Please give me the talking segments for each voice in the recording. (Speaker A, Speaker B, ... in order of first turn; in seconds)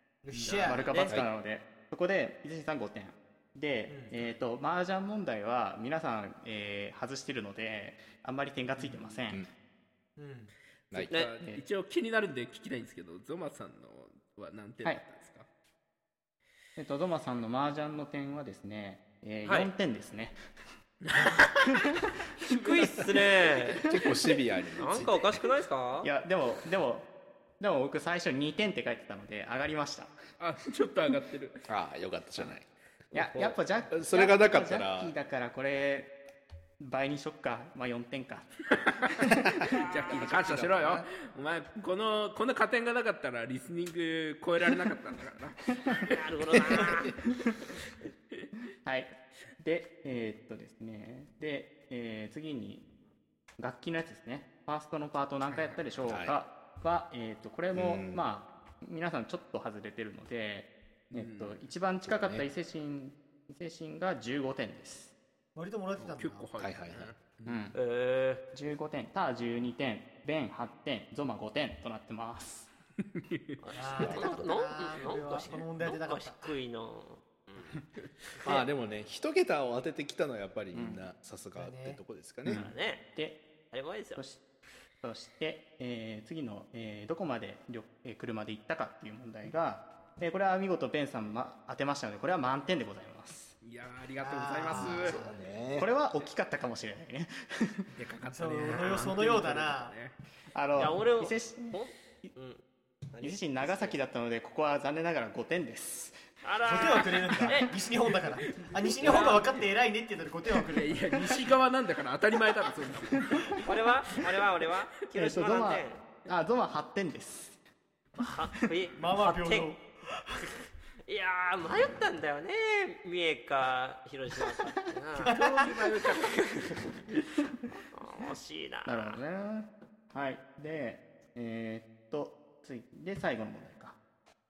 Speaker A: 0.2-0.9, 3.9-4.2, 8.8-9.1, 10.2-10.5, 65.5-66.5, 73.8-76.5, 78.4-78.7, 81.6-82.0, 94.2-95.4, 98.3-100.0, 106.6-111.0, 119.0-120.5, 125.2-125.8
Speaker B: 0.4-1.2, 19.4-19.7, 22.5-23.8, 24.8-26.1, 33.1-33.6, 46.1-47.1, 67.7-68.4, 73.6-77.8, 82.5-83.0, 83.7-84.2, 98.7-99.1, 100.8-102.6, 103.1-104.0, 106.4-107.7, 109.0-109.5, 113.7-116.0, 118.2-119.7, 121.1-125.4, 126.2-126.8, 127.9-129.2
Speaker C: 0.4-9.5, 16.8-20.4, 23.9-24.1, 26.0-27.1, 27.6-30.1, 33.1-36.1, 36.8-39.7, 48.9-52.9, 53.6-65.2, 67.5-67.8, 68.5-72.7, 74.0-74.4, 80.7-81.1, 82.5-83.4, 84.2-84.4, 85.0-93.5, 95.8-97.9, 100.5-102.3, 103.2-106.2, 115.1-117.6, 128.8-134.0
Speaker D: 11.0-15.5, 21.0-21.8, 30.4-31.7, 39.8-46.1, 61.1-61.6, 66.0-67.6, 93.6-95.2, 97.9-100.2, 108.5-109.5, 110.5-113.6, 125.3-126.8
Speaker E: 23.8-25.4, 31.7-32.7, 33.9-35.1, 39.9-41.1, 56.0-56.4, 57.7-58.2, 62.1-62.5, 66.6-67.1, 78.5-82.6, 94.7-95.9